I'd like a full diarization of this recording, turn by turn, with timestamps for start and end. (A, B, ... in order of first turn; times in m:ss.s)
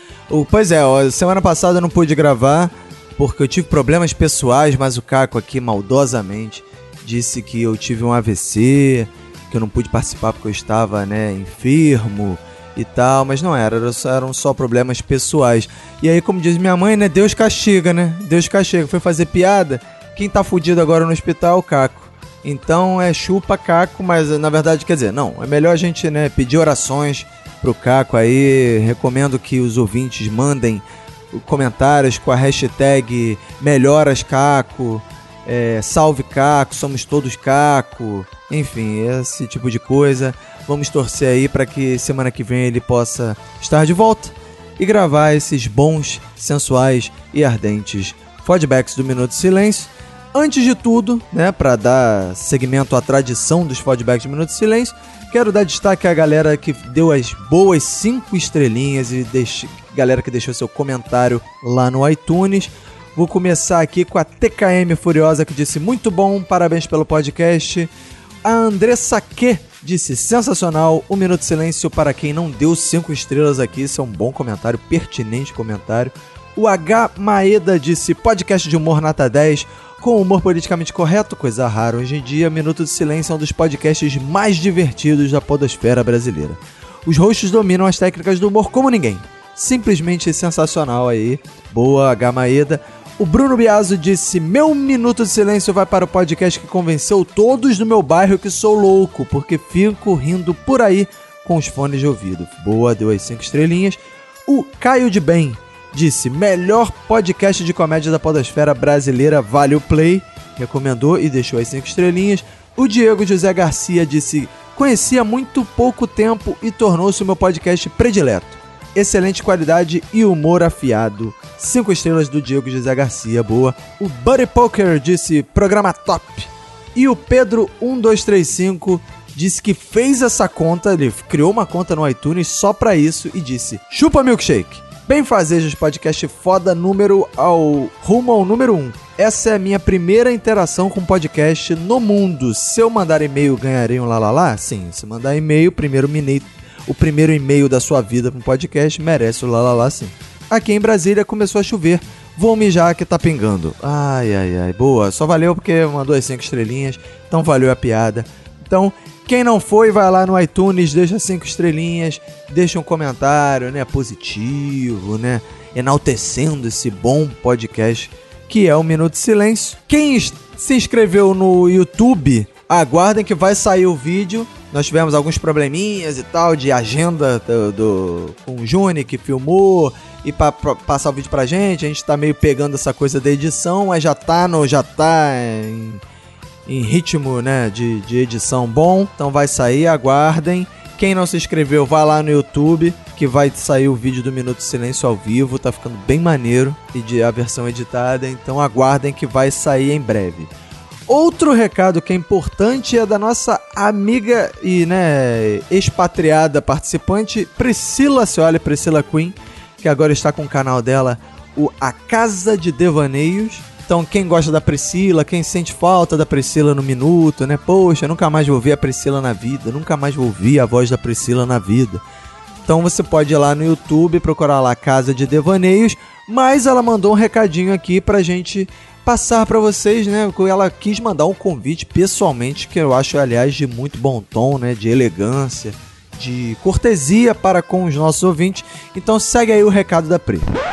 0:00.3-1:07.9 A
1:08.4-3:06.0 A
3:06.7-3:20.5 A
3:21.1-3:42.0 A
3:42.7-4:00.5 A